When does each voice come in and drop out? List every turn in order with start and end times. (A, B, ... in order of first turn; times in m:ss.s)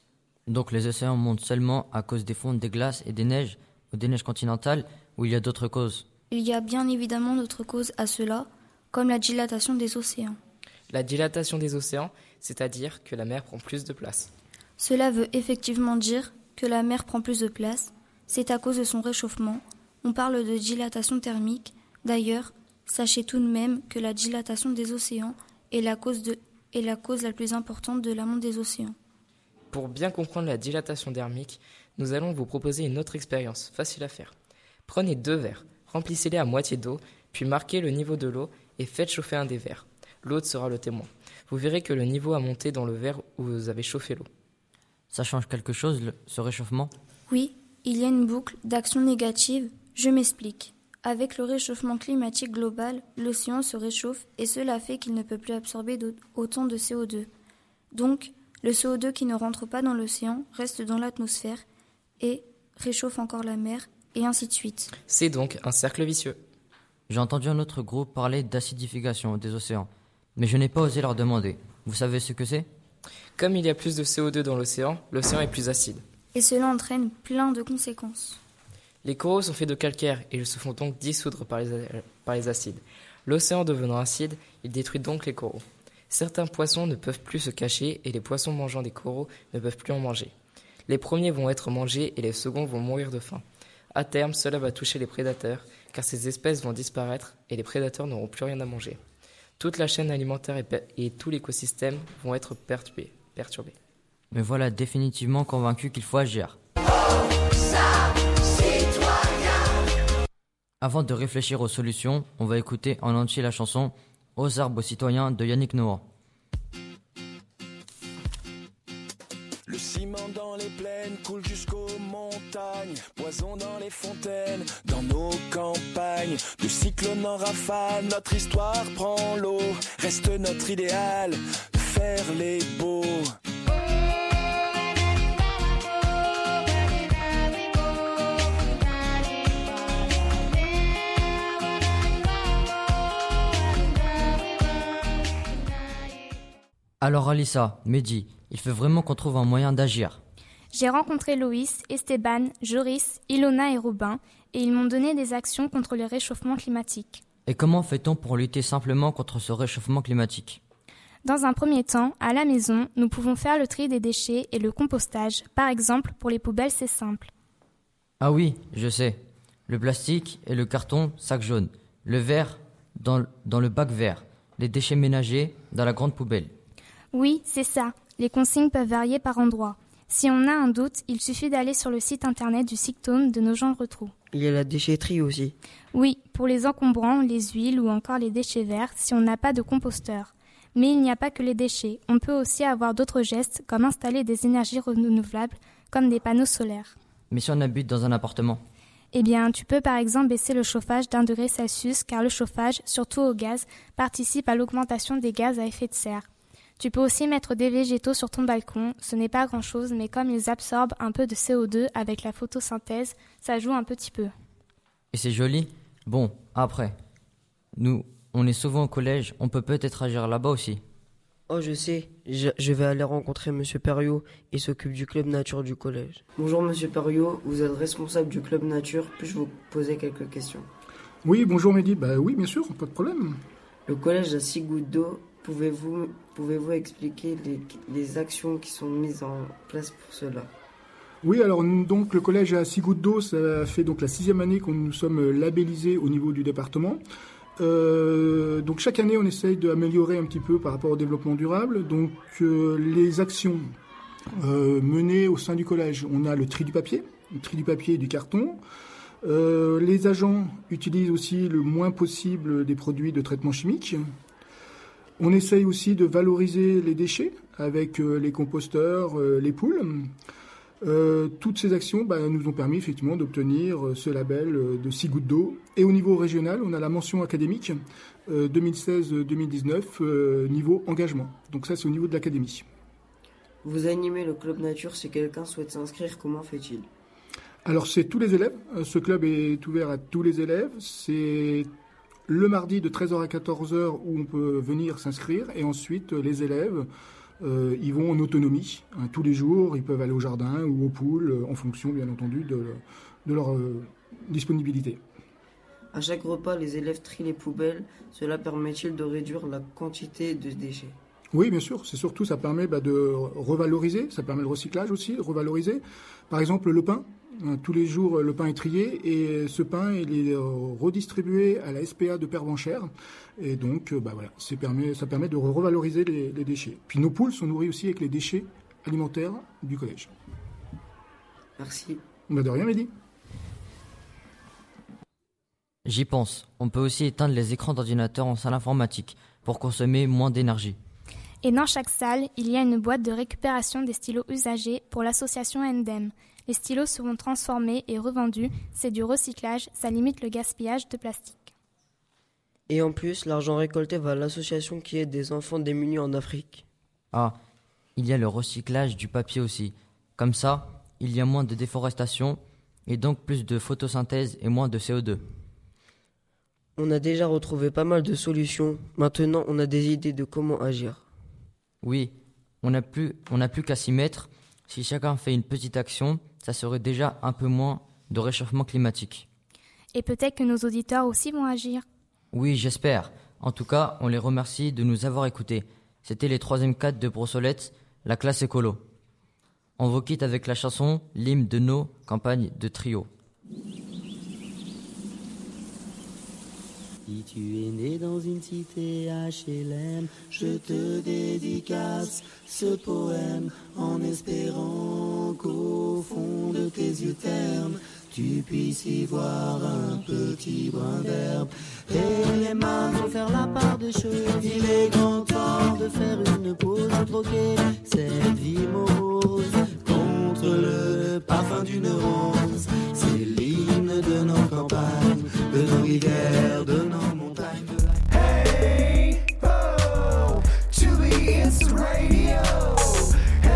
0:00.5-0:06.0 A
0:06.3-0:10.4 B
0:10.9-0:14.3 C
0:14.8-0:28.9 B
0:29.7-0:34.3 C
0:34.9-0:44.3 C
0:45.1-0:46.9 A
0:47.3-0:57.3 B
0:57.9-1:01.6 B
1:02.2-1:04.9 B
1:05.1-1:06.4 C
1:07.1-1:12.6 A
1:13.4-1:16.0 C
1:16.3-1:18.4 B
1:19.0-1:30.3 C
1:30.9-1:33.4 C
1:33.9-1:39.0 C
1:39.6-1:43.7 C
1:44.3-1:46.6 A
1:50.8-1:56.0 A
1:59.7-2:13.3 D
2:27.0-2:30.2 A
2:30.7-2:37.2 E
2:37.4-2:40.6 A
2:41.2-2:47.3 E
2:48.2-2:56.5 A
2:57.1-3:04.1 E
3:04.3-3:05.5 F
3:05.9-3:16.9 E
3:17.3-3:18.6 A
3:19.1-3:26.2 E
3:26.8-3:34.3 E
3:35.1-3:36.9 A
3:37.8-3:40.8 A
3:41.5-3:50.7 F
3:51.2-3:53.4 G
3:53.9-4:00.5 F
4:01.2-4:07.0 G
4:07.6-4:13.6 G
4:14.4-4:18.6 G
4:19.2-4:24.0 G
4:25.2-4:30.1 G
4:30.8-4:37.8 G
4:38.3-4:42.6 G
4:43.6-4:46.9 F
4:47.6-4:51.7 G
4:52.3-4:56.8 G
4:57.4-5:05.0 G
5:05.9-5:11.0 F
5:11.3-5:30.1 G
5:31.6-5:32.0 F
5:32.3-5:32.9 G
5:35.8-5:40.8 A
5:41.4-5:51.5 E
5:52.7-5:56.6 F
5:58.0-6:05.2 A
6:06.8-6:11.0 F
6:11.8-6:19.3 A
6:19.9-6:21.8 E
6:22.3-6:28.8 A
6:29.8-6:33.1 A
6:37.1-7:07.8 H
7:10.8-7:11.2 H